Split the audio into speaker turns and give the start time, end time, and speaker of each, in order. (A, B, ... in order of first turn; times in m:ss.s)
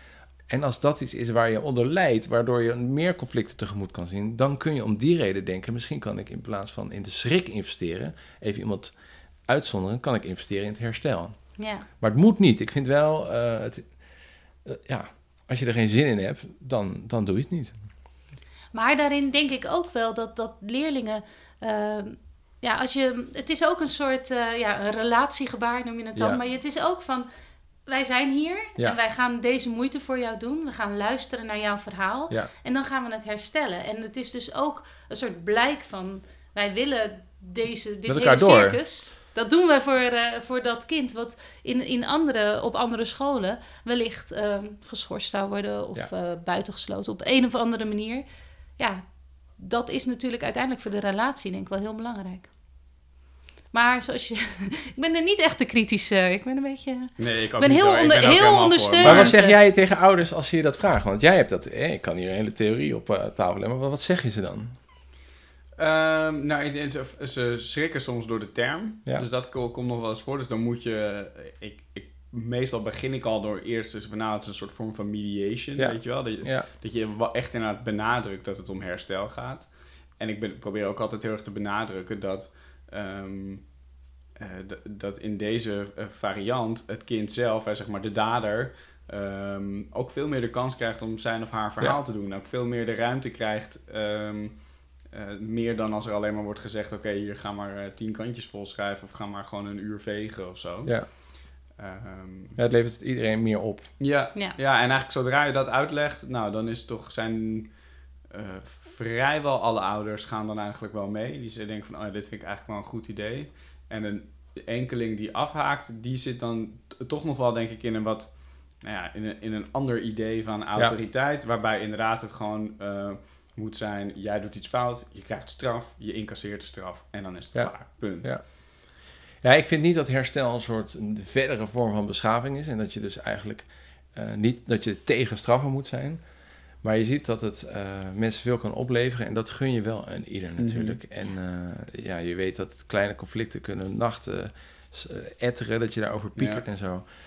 0:00.5-0:08.9 A
0:09.5-0:11.4 A
0:11.6-0:11.9 B
0:12.0-0:13.9 A
0:14.6-0:17.8 A
0:18.7-0:27.3 B
0:27.9-0:48.2 B
0:38.1-0:38.8 A
0:48.8-0:52.5 B
0:53.7-0:59.6 B
0:57.2-0:59.4 C
0:59.0-1:04.8 A
1:05.8-1:23.8 C
1:15.8-1:16.7 A
1:24.3-1:42.6 C
1:42.6-1:44.0 A
1:44.0-2:08.4 C
2:07.5-2:08.7 A
2:09.4-2:16.2 A
2:16.8-2:27.0 A
2:20.6-2:21.0 C
2:26.4-2:26.6 C